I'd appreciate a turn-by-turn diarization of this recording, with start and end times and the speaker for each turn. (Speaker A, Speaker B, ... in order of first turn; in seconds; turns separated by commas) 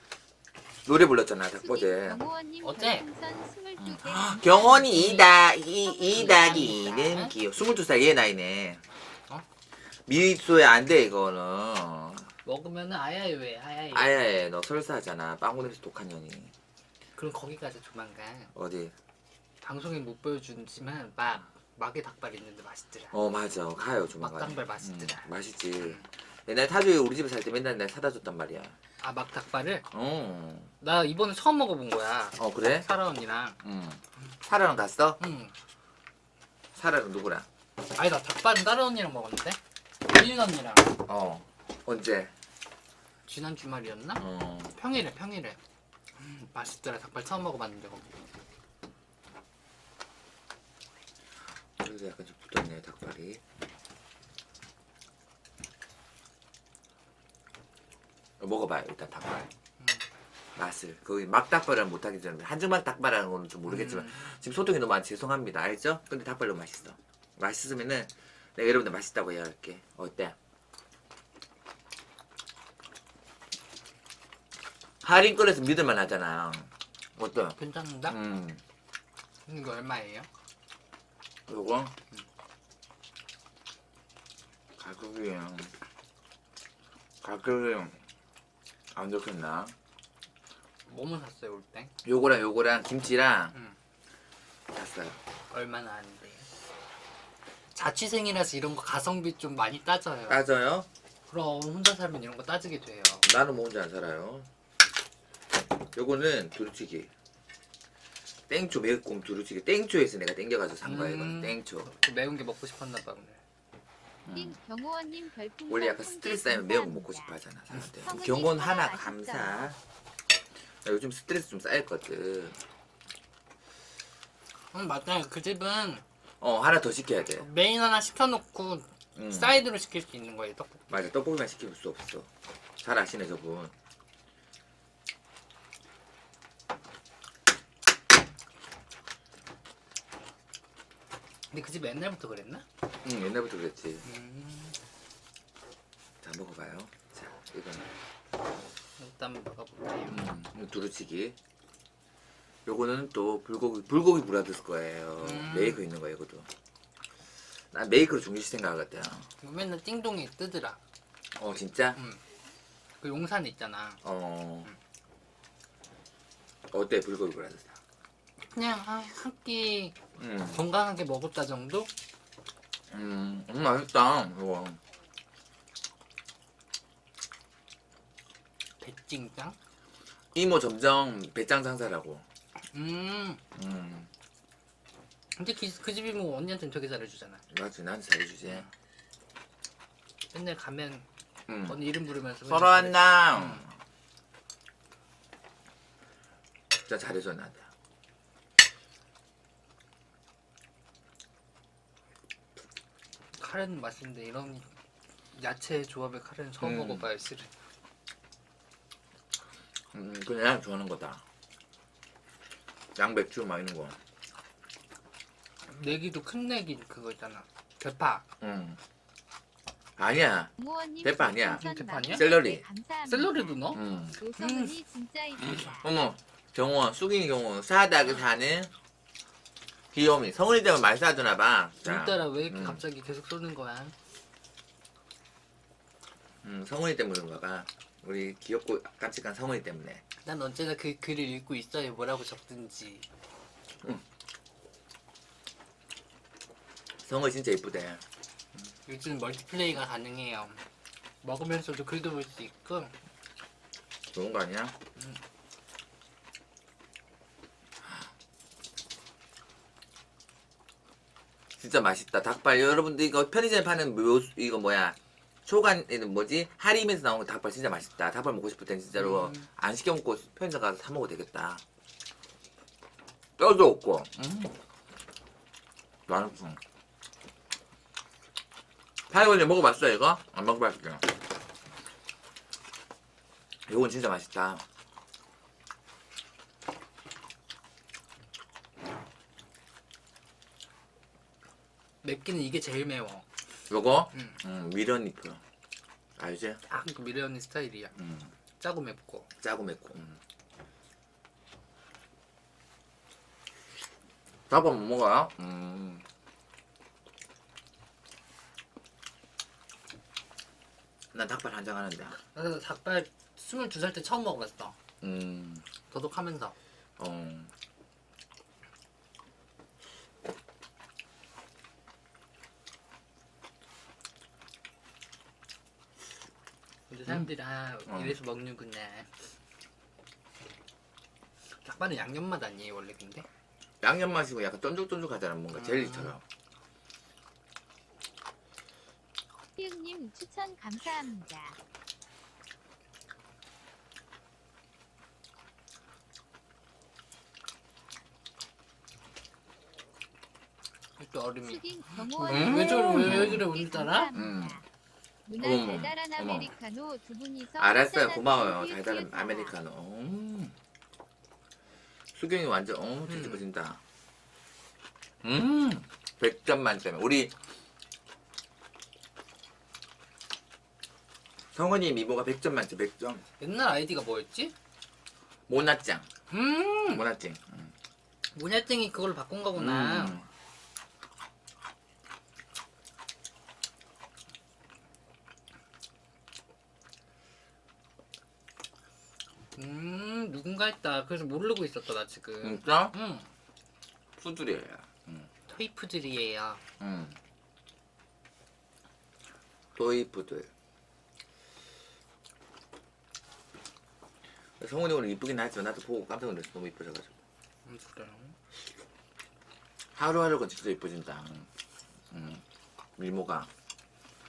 Speaker A: 0.8-2.2, Speaker B: 1.6-4.9, Speaker C: 2.6-3.0, Speaker A: 3.8-8.8, Speaker C: 4.9-5.2, Speaker B: 5.9-6.2, Speaker C: 6.1-7.3, Speaker B: 6.8-7.1, Speaker A: 10.1-12.3, Speaker C: 12.4-14.2, Speaker A: 13.9-16.5, Speaker C: 17.1-18.5, Speaker A: 18.5-18.9, Speaker C: 19.6-23.1, Speaker A: 23.1-28.7, Speaker C: 24.2-25.3, Speaker C: 25.8-26.1, Speaker C: 29.0-29.9, Speaker A: 29.9-30.7, Speaker C: 30.8-33.6, Speaker A: 32.4-32.9, Speaker A: 33.6-35.2, Speaker C: 35.2-35.5, Speaker A: 36.7-37.5, Speaker C: 37.9-41.0, Speaker A: 41.0-42.3, Speaker C: 43.3-45.6, Speaker A: 44.2-44.8, Speaker C: 46.2-48.1, Speaker A: 51.8-53.4, Speaker A: 58.4-59.5, Speaker A: 60.5-70.3, Speaker C: 63.7-64.2, Speaker A: 75.0-78.6, Speaker C: 77.5-78.2, Speaker C: 79.5-80.3, Speaker A: 81.5-81.9, Speaker A: 84.8-85.7, Speaker A: 87.2-88.0, Speaker A: 88.9-89.7, Speaker C: 90.9-91.9, Speaker A: 92.0-93.5, Speaker A: 94.7-95.2, Speaker C: 95.5-96.5, Speaker C: 97.7-100.4, Speaker A: 100.3-100.9, Speaker C: 101.3-103.2, Speaker A: 103.2-104.5, Speaker A: 105.9-107.1, Speaker A: 108.5-111.9, Speaker C: 110.8-113.4, Speaker A: 114.2-114.6, Speaker B: 114.3-117.3, Speaker A: 115.7-119.8, Speaker B: 118.0-119.7, Speaker A: 120.7-122.6, Speaker C: 124.7-126.0, Speaker A: 126.4-127.5, Speaker C: 127.4-130.9, Speaker A: 129.1-129.6, Speaker A: 130.9-132.3, Speaker A: 132.8-133.7, Speaker C: 141.5-142.7, Speaker A: 143.0-144.1, Speaker C: 144.0-144.8, Speaker A: 146.2-147.9, Speaker C: 149.0-150.2, Speaker A: 150.1-151.4, Speaker A: 152.7-156.5, Speaker C: 155.2-155.8, Speaker A: 157.7-159.3, Speaker C: 159.4-160.8, Speaker A: 161.3-162.0, Speaker C: 161.9-162.2, Speaker C: 163.0-164.0, Speaker A: 164.0-164.7, Speaker A: 166.7-167.8, Speaker C: 168.5-171.9, Speaker A: 170.2-170.6, Speaker A: 172.9-174.8, Speaker C: 178.8-179.6, Speaker A: 180.3-182.2, Speaker C: 182.7-183.4, Speaker A: 183.5-184.1, Speaker C: 185.3-187.4, Speaker A: 187.5-188.7, Speaker C: 190.3-191.1, Speaker A: 191.5-191.8, Speaker C: 191.7-193.6, Speaker A: 192.4-193.7, Speaker A: 196.7-197.7, Speaker C: 203.3-204.7, Speaker C: 205.3-207.5, Speaker A: 206.6-207.1, Speaker A: 209.9-211.2, Speaker A: 212.9-214.0, Speaker C: 215.7-218.2, Speaker A: 218.4-218.8, Speaker A: 220.0-222.6, Speaker B: 220.6-225.8, Speaker C: 221.4-222.3, Speaker C: 223.1-223.8, Speaker A: 223.7-224.2, Speaker C: 224.3-224.8, Speaker A: 225.4-228.7, Speaker A: 229.9-232.8, Speaker C: 231.8-233.9, Speaker A: 236.4-240.0, Speaker C: 240.2-243.1, Speaker A: 247.0-248.0, Speaker C: 248.8-250.6, Speaker C: 251.2-252.9, Speaker A: 254.1-254.7, Speaker A: 261.6-271.6, Speaker C: 268.9-269.5, Speaker A: 273.4-274.6, Speaker A: 276.1-276.6, Speaker A: 279.1-281.1, Speaker A: 283.7-284.6, Speaker C: 292.0-293.2, Speaker A: 293.7-295.4, Speaker A: 296.2-296.6, Speaker C: 296.7-297.9, Speaker A: 298.0-298.3, Speaker C: 298.6-299.3, Speaker A: 299.4-300.2, Speaker A: 304.5-306.0, Speaker A: 311.1-312.2, Speaker C: 312.3-314.8, Speaker A: 315.0-315.6, Speaker C: 315.9-316.5, Speaker A: 317.0-317.5, Speaker C: 326.9-329.1, Speaker A: 327.9-328.2, Speaker C: 331.5-333.3, Speaker A: 333.8-336.2, Speaker C: 335.5-336.1, Speaker B: 339.6-341.6, Speaker C: 351.0-354.1, Speaker B: 351.4-354.5, Speaker A: 352.3-353.5, Speaker A: 354.1-354.6, Speaker B: 355.3-359.5, Speaker A: 355.4-356.5, Speaker A: 357.6-360.5, Speaker A: 362.1-363.8, Speaker C: 363.1-363.4, Speaker A: 365.2-367.3, Speaker A: 371.5-373.2, Speaker C: 373.4-374.5, Speaker A: 375.5-376.1, Speaker C: 376.3-377.0, Speaker A: 376.8-377.7, Speaker C: 378.3-380.2, Speaker A: 379.5-380.3, Speaker C: 389.6-393.3, Speaker A: 392.4-392.9, Speaker A: 394.2-395.3, Speaker C: 395.5-396.6, Speaker A: 396.8-397.2, Speaker A: 399.8-400.5, Speaker A: 404.6-407.1, Speaker C: 407.6-408.4, Speaker A: 409.9-411.5, Speaker A: 412.1-412.4, Speaker A: 413.0-413.5